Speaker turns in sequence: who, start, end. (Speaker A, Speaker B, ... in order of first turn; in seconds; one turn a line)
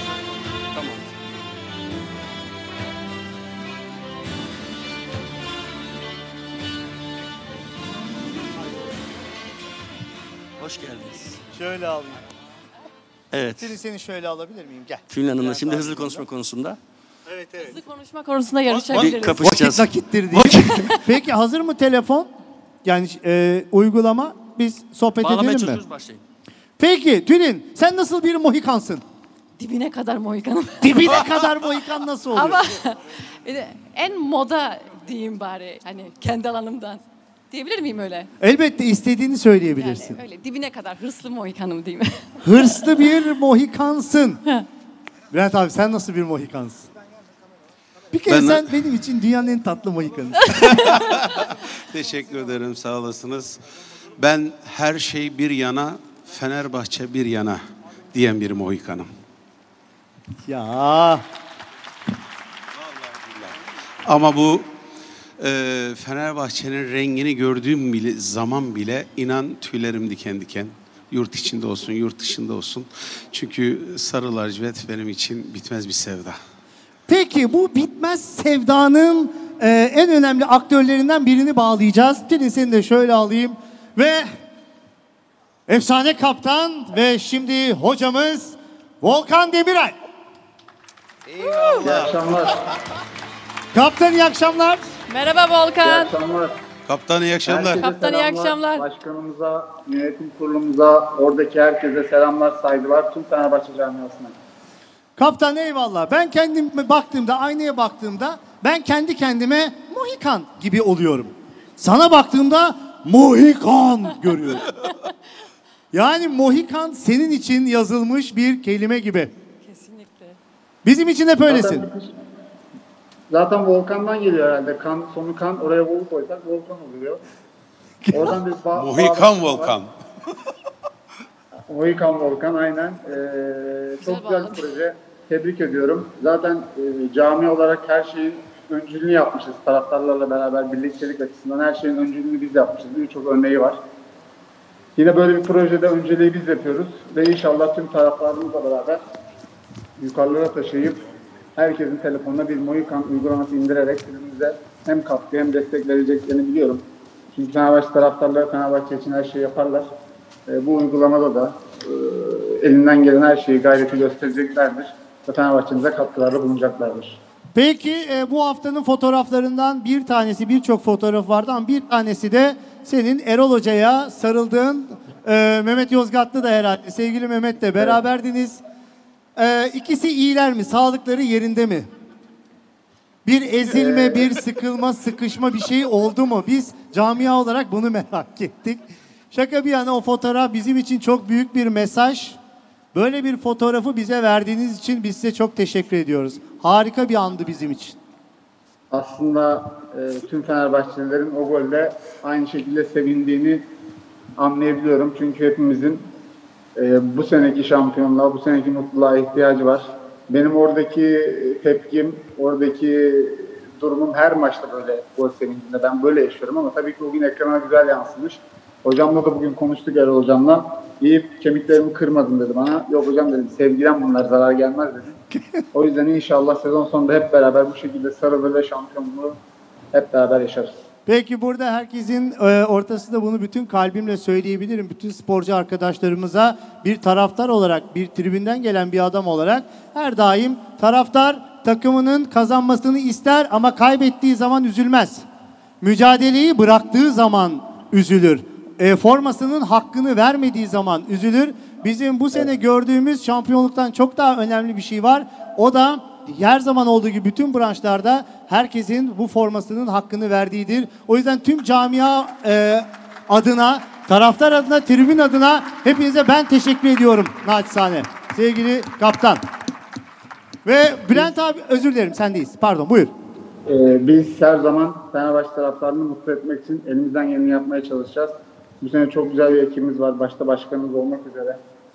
Speaker A: 0.7-1.1
Speaker A: 10.6-11.4
Speaker B: 11.5-12.2
Speaker A: 13.3-13.7
Speaker B: 13.6-16.2
Speaker A: 15.1-16.8
Speaker B: 17.3-17.8
Speaker C: 17.6-19.4
Speaker B: 18.7-22.3
Speaker A: 18.9-20.9
Speaker B: 22.8-25.8
Speaker A: 25.2-26.2
Speaker B: 26.8-29.0
Speaker C: 29.6-31.4
Speaker B: 30.8-32.6
Speaker C: 32.3-38.3
Speaker B: 38.4-40.2
Speaker C: 39.8-42.8
Speaker B: 42.4-44.4
Speaker B: 45.3-46.9
Speaker B: 48.1-50.9
Speaker D: 48.3-48.7
Speaker D: 50.7-53.6
Speaker D: 54.2-59.1
Speaker B: 60.5-61.2
Speaker D: 63.0-63.5
Speaker D: 64.0-64.7
Speaker D: 65.4-76.4
Speaker B: 77.1-84.3
Speaker B: 85.7-90.0
Speaker C: 91.4-91.9
Speaker E: 91.8-92.6
Speaker D: 91.8-92.1
Speaker B: 93.7-94.8
Speaker C: 95.1-96.1
Speaker E: 95.8-96.6
Speaker D: 96.9-97.9
Speaker E: 97.5-104.3
Speaker C: 97.7-98.8
Speaker B: 105.2-114.8
Speaker B: 115.9-119.3
Speaker C: 119.6-120.4
Speaker B: 120.8-121.8
Speaker E: 121.5-122.2
Speaker E: 123.3-127.2
Speaker B: 128.1-128.3
Speaker E: 128.1-129.8
Speaker D: 128.7-129.9
Speaker E: 131.7-143.8
Speaker C: 134.0-134.7
Speaker E: 144.9-149.0
Speaker E: 150.0-151.0
Speaker E: 151.6-159.9
Speaker E: 160.5-167.2
Speaker B: 167.5-178.6
Speaker B: 179.3-181.9
Speaker B: 183.2-192.4
Speaker E: 183.7-184.3
Speaker B: 192.9-197.9
Speaker E: 198.9-203.7
Speaker E: 204.4-206.1
Speaker E: 206.8-225.2
Speaker B: 225.3-225.6
Speaker E: 225.7-229.4
Speaker E: 229.9-230.7
Speaker B: 231.1-245.2
Speaker B: 245.8-269.4
Speaker B: 270.6-273.1
Speaker E: 273.6-281.6